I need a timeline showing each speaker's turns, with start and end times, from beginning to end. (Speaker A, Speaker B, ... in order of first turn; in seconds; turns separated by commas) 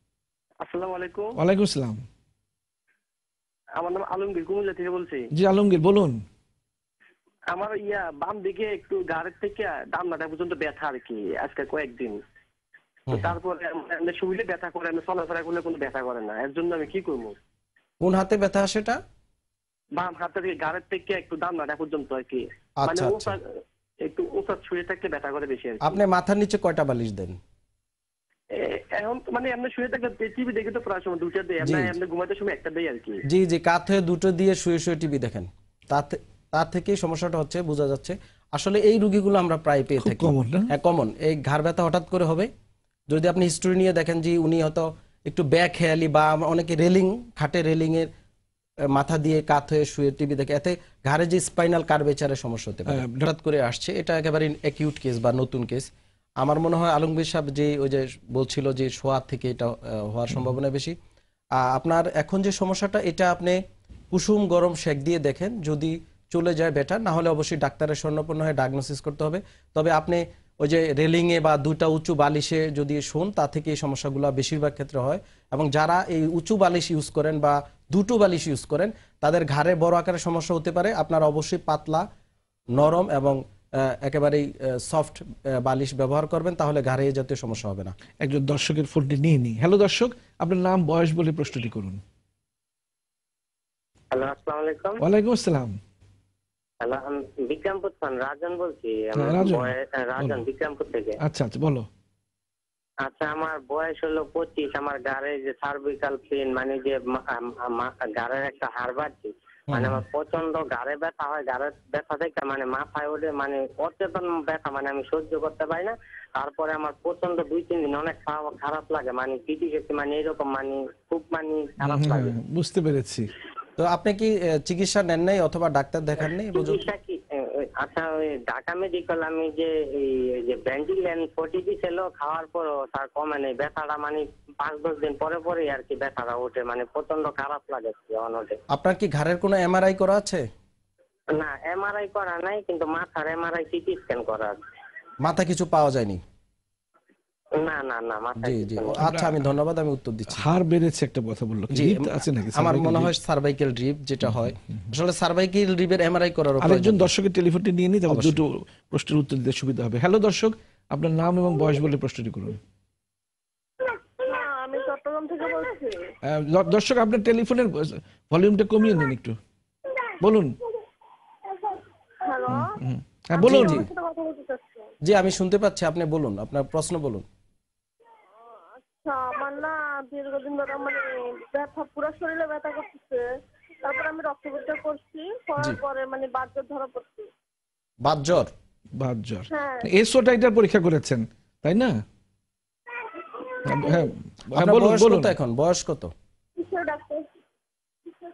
Speaker A: 0.6-1.4, Speaker B: 1.4-2.0, Speaker A: 3.8-5.2, Speaker B: 5.3-6.2, Speaker A: 7.5-12.2, Speaker A: 13.1-17.4, Speaker C: 18.0-19.0, Speaker A: 19.9-23.4, Speaker C: 22.8-23.3, Speaker A: 24.0-26.0, Speaker C: 25.8-27.4, Speaker A: 28.6-33.2, Speaker C: 31.6-31.9, Speaker C: 33.3-42.5, Speaker B: 40.0-40.7, Speaker C: 43.1-48.1, Speaker C: 48.9-55.9, Speaker B: 52.9-53.3, Speaker C: 56.4-60.9, Speaker C: 61.5-63.6, Speaker C: 64.1-82.0, Speaker C: 82.7-87.9, Speaker B: 88.2-92.0, Speaker D: 94.1-95.0, Speaker B: 95.0-95.8, Speaker D: 96.8-101.1, Speaker B: 99.1-100.4, Speaker B: 101.2-101.8, Speaker D: 103.0-122.3, Speaker C: 109.7-110.0, Speaker B: 121.8-123.3, Speaker C: 123.8-126.9, Speaker D: 126.5-127.2, Speaker D: 127.8-138.5, Speaker C: 138.7-140.4, Speaker D: 141.3-144.6, Speaker C: 145.2-146.2, Speaker D: 147.6-149.0, Speaker C: 148.4-150.5, Speaker B: 149.0-149.3, Speaker B: 150.3-153.1, Speaker C: 151.7-157.1, Speaker B: 156.6-162.6, Speaker C: 158.1-158.4, Speaker E: 164.2-165.9, Speaker B: 166.3-169.3, Speaker B: 170.2-170.6, Speaker B: 172.5-173.9, Speaker C: 173.4-173.9, Speaker E: 173.9-174.6, Speaker C: 175.0-177.2, Speaker E: 179.0-181.0, Speaker E: 181.5-183.2, Speaker E: 183.8-187.2, Speaker C: 188.0-188.5, Speaker B: 189.0-191.9, Speaker B: 193.6-195.3, Speaker C: 194.5-196.1, Speaker E: 196.6-197.2